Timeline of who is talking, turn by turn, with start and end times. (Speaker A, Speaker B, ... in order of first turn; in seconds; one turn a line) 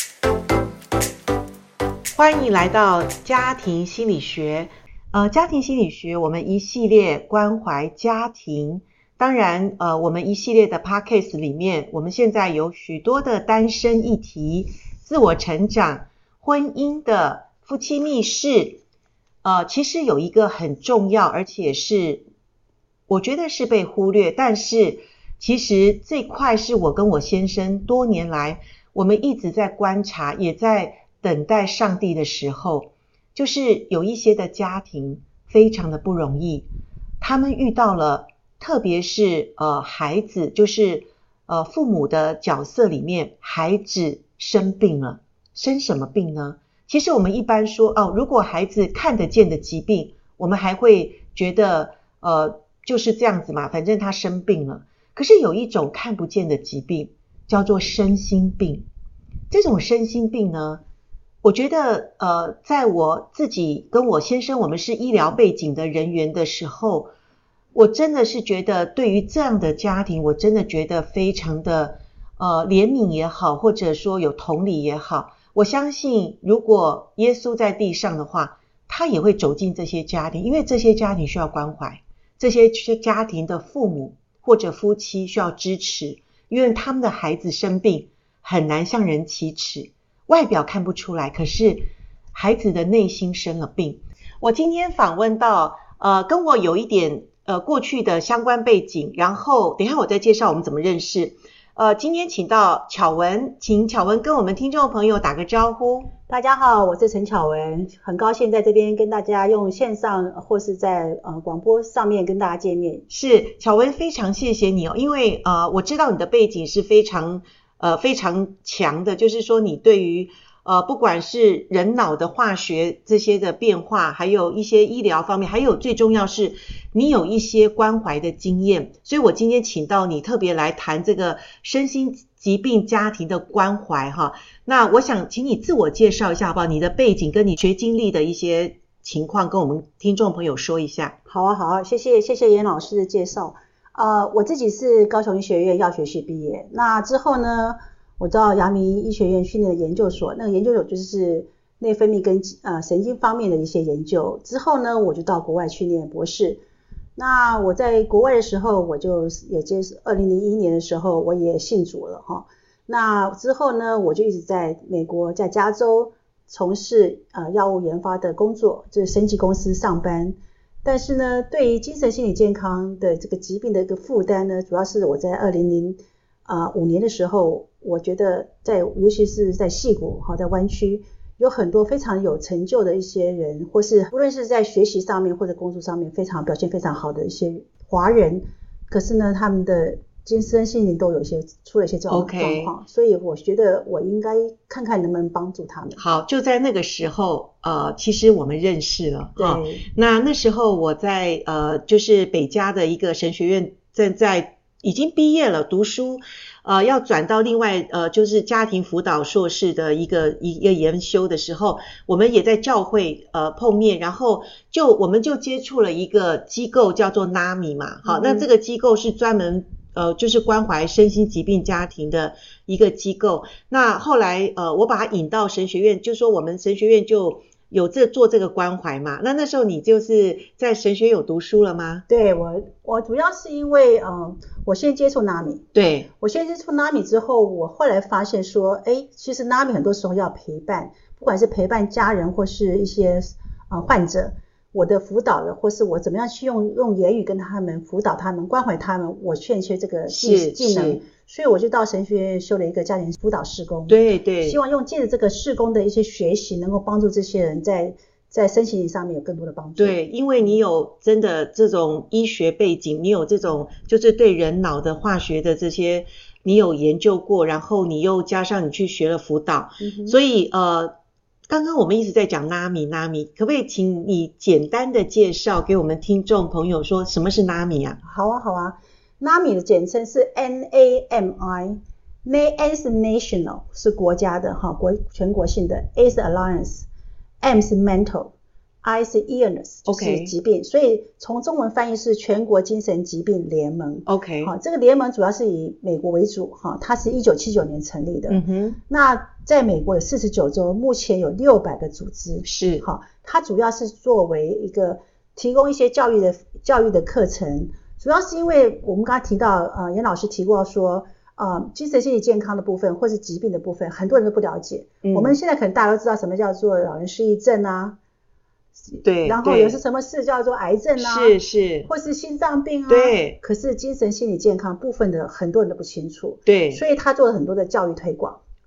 Speaker A: 2.1-18.8
Speaker A: 19.4-22.2
Speaker A: 23.1-36.7
Speaker A: 37.2-58.9
Speaker A: 59.5-60.8
Speaker A: 61.4-67.1
Speaker A: 67.7-106.1
Speaker B: 106.3-113.1
Speaker A: 113.1-141.2
Speaker B: 141.3-156.6
Speaker B: 157.2-196.0
Speaker A: 192.1-192.7
Speaker A: 196.0-232.1
Speaker B: 199.4-199.9
Speaker B: 218.1-218.5
Speaker B: 232.1-235.7
Speaker A: 235.7-236.1
Speaker B: 236.2-260.0
Speaker A: 250.1-251.0
Speaker A: 253.9-254.6
Speaker A: 259.8-270.9
Speaker B: 269.8-270.1
Speaker A: 271.5-278.0
Speaker B: 278.0-286.9
Speaker B: 287.4-318.0
Speaker A: 289.9-290.3
Speaker A: 294.1-294.5
Speaker A: 298.3-298.8
Speaker A: 302.4-302.9
Speaker A: 315.0-315.4
Speaker B: 318.9-328.4
Speaker A: 319.0-319.8
Speaker A: 321.0-321.9
Speaker A: 322.9-323.4
Speaker A: 326.5-326.8